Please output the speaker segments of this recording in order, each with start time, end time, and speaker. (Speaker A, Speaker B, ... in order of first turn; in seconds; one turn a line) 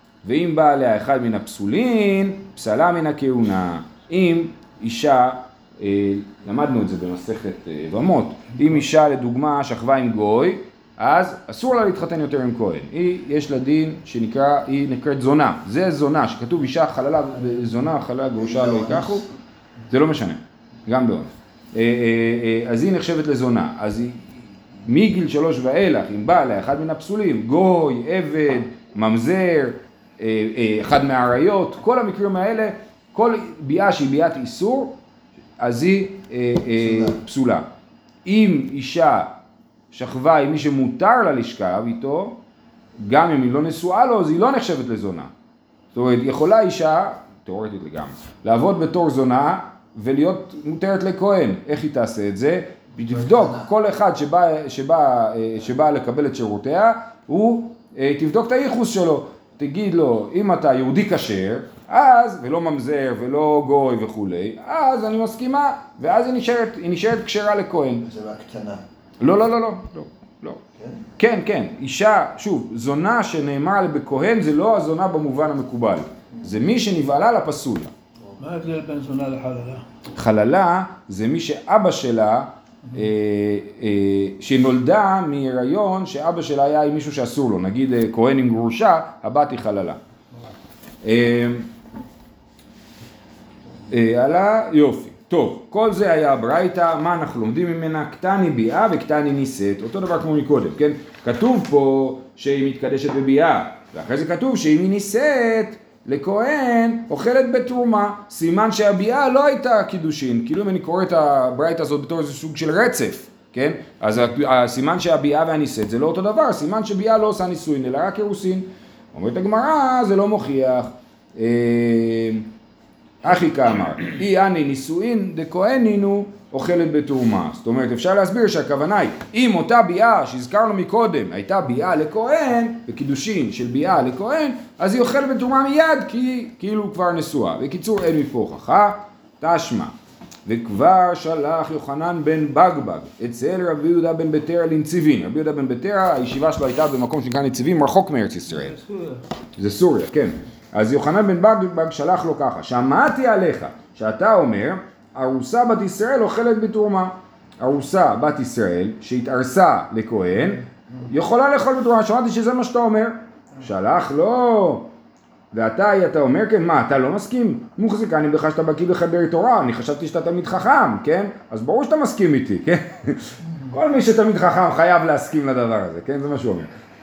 Speaker A: 0.2-19.2
Speaker B: 18.3-19.3
Speaker A: 19.9-35.0
Speaker A: 35.6-37.7
Speaker B: 36.8-37.2
Speaker A: 38.2-39.3
Speaker A: 39.9-42.4
Speaker A: 43.0-45.3
Speaker A: 45.9-68.0
Speaker B: 53.1-53.7
Speaker B: 68.0-68.8
Speaker A: 69.2-70.6
Speaker B: 70.8-71.0
Speaker A: 71.2-77.9
Speaker C: 78.4-79.8
Speaker A: 80.1-90.0
Speaker A: 91.0-91.7
Speaker A: 93.9-122.5
Speaker A: 123.2-139.9
Speaker A: 140.4-148.8
Speaker C: 148.7-149.2
Speaker A: 149.6-164.9
Speaker A: 165.5-176.7